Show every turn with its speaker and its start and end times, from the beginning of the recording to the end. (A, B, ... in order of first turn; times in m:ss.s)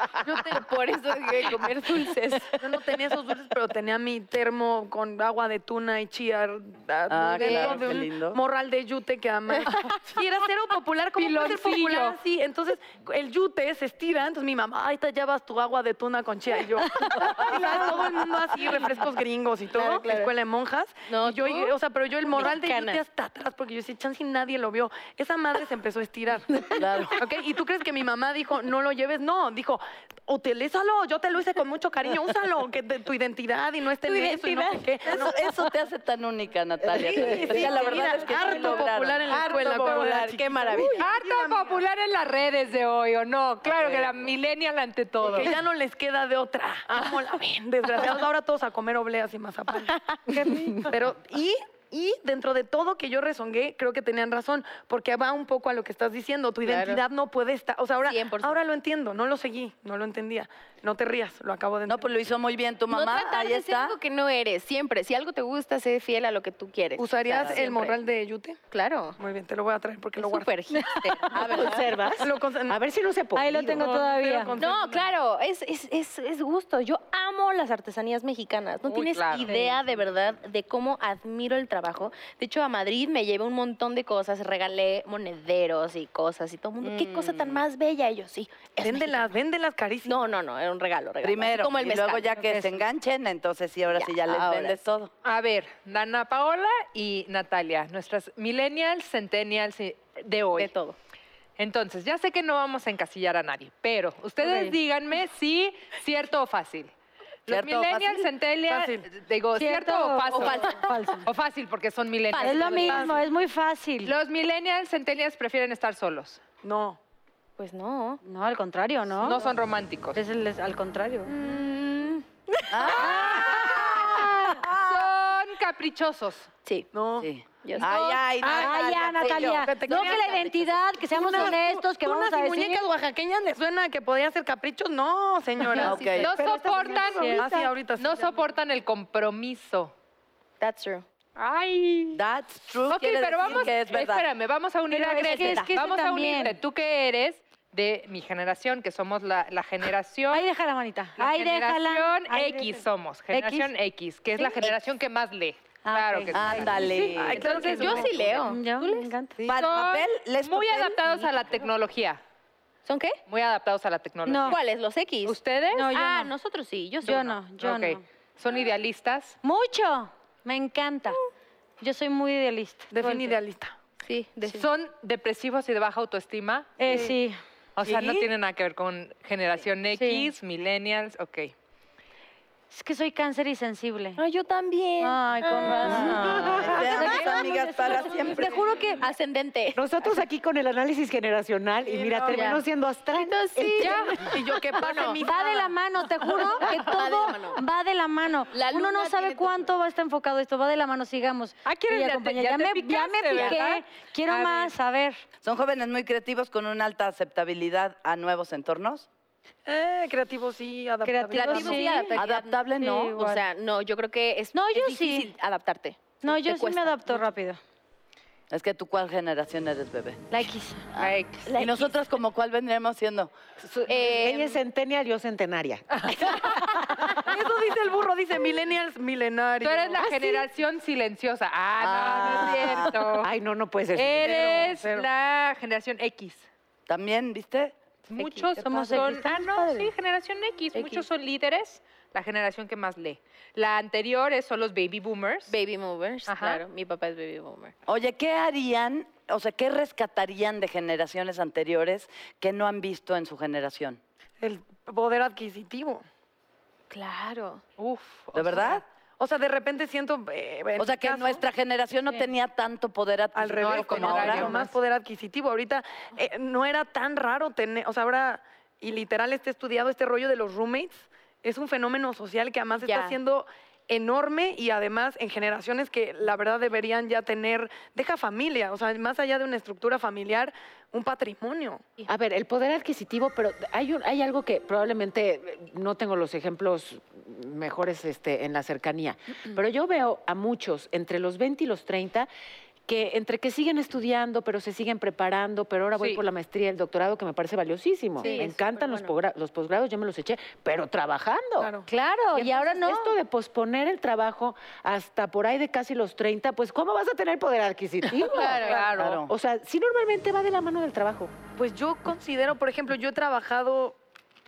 0:00.2-0:02.8 A
0:02.6-0:35.5 B
0:07.1-0:08.4 C
0:07.4-0:07.8 A
0:09.6-0:09.9 A
0:11.2-0:12.2 D
0:17.5-0:18.1 A
0:19.7-0:20.3 A
0:21.1-0:21.7 A
0:22.3-0:23.0 A
0:26.8-0:27.3 C
0:34.0-0:35.1 A
0:35.1-0:40.4 C
0:36.9-0:41.8 B
0:37.1-0:37.6 E
0:37.2-0:41.1 A
0:41.0-0:45.6 D
0:43.6-0:44.3 C
0:45.2-0:50.0 B
0:49.9-0:50.2 A
0:50.3-0:50.9 F
0:50.8-1:02.1 B
0:56.6-0:57.0 A
0:58.0-0:58.6 A
1:01.9-1:04.0 C
1:02.9-1:08.0 A
1:07.0-1:08.6 B
1:08.7-1:09.2 A
1:09.2-1:10.5 B
1:10.2-1:11.8 A
1:11.3-1:11.9 C
1:11.5-1:13.9 E
1:12.2-1:12.8 B
1:13.4-1:14.6 F
1:13.8-1:15.0 B
1:14.6-1:29.3 A
1:18.8-1:19.8 D
1:26.8-1:27.6 C
1:28.8-1:30.2 B
1:30.0-1:32.6 A
1:31.2-1:35.1 C
1:33.9-1:34.8 A
1:35.2-1:40.7 D
1:40.6-1:41.0 A
1:41.6-1:46.9 D
1:44.4-1:44.8 F
1:47.5-1:48.3 C
1:47.5-1:50.7 D
1:48.7-1:49.1 B
1:49.6-1:51.3 F
1:50.3-1:50.9 A
1:51.2-1:53.2 D
1:52.3-1:54.1 F
1:52.8-1:53.2 B
1:54.0-1:56.4 D
1:56.6-1:57.0 B
1:57.6-1:58.2 A
1:58.2-1:59.4 F
1:59.2-2:00.2 D
2:00.1-2:01.3 F
2:01.3-2:01.8 B
2:01.4-2:02.2 A
2:02.7-2:05.1 C
2:02.8-2:04.6 F
2:03.0-2:06.5 D
2:06.9-2:18.3 B
2:07.2-2:09.7 C
2:07.6-2:08.2 A
2:08.4-2:12.8 F
2:09.3-2:10.7 A
2:15.8-2:16.3 A
2:15.8-2:16.3 C
2:16.2-2:19.9 D
2:16.4-2:17.6 E
2:16.5-2:17.5 F
2:20.6-2:21.0 A
2:21.4-2:22.2 D
2:22.1-2:24.3 C
2:22.9-2:30.5 D
2:24.9-2:26.6 F
2:25.1-2:25.7 A
2:30.3-2:33.7 F
2:31.2-2:38.4 D
2:34.4-2:34.7 F
2:35.8-2:36.5 F
2:36.3-2:37.4 C
2:36.9-2:38.2 B
2:37.7-2:39.1 A
2:38.4-2:39.4 F
2:39.4-2:42.2 D
2:39.5-2:41.3 C
2:42.9-2:43.2 A
2:43.3-2:44.6 D
2:44.3-2:44.6 F
2:44.5-2:47.4 A
2:45.2-2:45.9 D
2:45.8-2:46.3 F
2:47.0-2:48.0 F
2:47.6-2:49.4 D
2:49.4-2:51.2 F
2:51.8-2:53.4 F
2:52.9-2:53.8 B
2:54.0-2:54.7 A
2:54.5-2:56.8 D
2:56.8-2:57.4 F
2:57.8-3:01.5 D
3:00.0-3:00.3 F
3:02.7-3:04.2 F
3:04.2-3:09.8 A
3:05.0-3:09.0 F
3:05.8-3:08.6 C
3:06.2-3:06.9 E
3:09.8-3:14.4 E
3:11.9-3:12.5 B
3:12.3-3:15.2 A
3:13.8-3:14.2 D
3:14.2-3:15.7 B
3:15.2-3:25.2 F
3:16.6-3:17.6 A
3:18.5-3:19.7 A
3:21.6-3:24.7 D
3:25.4-3:29.1 C
3:29.7-3:32.1 B
3:31.0-3:32.2 F
3:31.3-3:37.3 A
3:32.2-3:33.2 C
3:32.8-3:33.4 F
3:34.5-3:35.3 F
3:36.2-3:37.6 F
3:38.5-3:40.4 C
3:40.3-3:40.8 F
3:40.9-3:43.3 C
3:41.0-3:41.5 D
3:41.5-3:41.9 A
3:43.6-3:47.2 E
3:43.9-3:44.6 A
3:46.1-3:46.5 D
3:47.1-3:50.2 B
3:49.6-3:53.3 D
3:50.0-3:50.4 E
3:51.8-3:53.0 C
3:53.2-3:54.8 E
3:54.0-3:56.5 D
3:54.2-3:55.1 B
3:56.9-3:57.8 C
3:58.1-4:05.5 D
3:58.2-3:59.2 A
3:58.6-3:59.9 F
4:00.8-4:01.0 A
4:05.5-4:07.8 A
4:06.3-4:06.6 D
4:07.9-4:14.0 C
4:14.4-4:16.0 B
4:16.9-4:17.6 A
4:17.8-4:18.8 D
4:18.3-4:18.8 C
4:19.2-4:21.4 B
4:20.8-4:24.6 C
4:23.4-4:41.8 B
4:23.6-4:24.7 D
4:32.8-4:33.2 A
4:42.1-4:52.3 E
4:52.9-5:01.8 E
4:56.0-4:56.2 D
4:58.2-4:59.2 A
5:01.6-5:01.9 B
5:01.9-5:03.2 F
5:02.3-5:11.4 E
5:08.3-5:08.9 A
5:08.4-5:09.2 D
5:08.9-5:09.3 C
5:11.6-5:14.0 B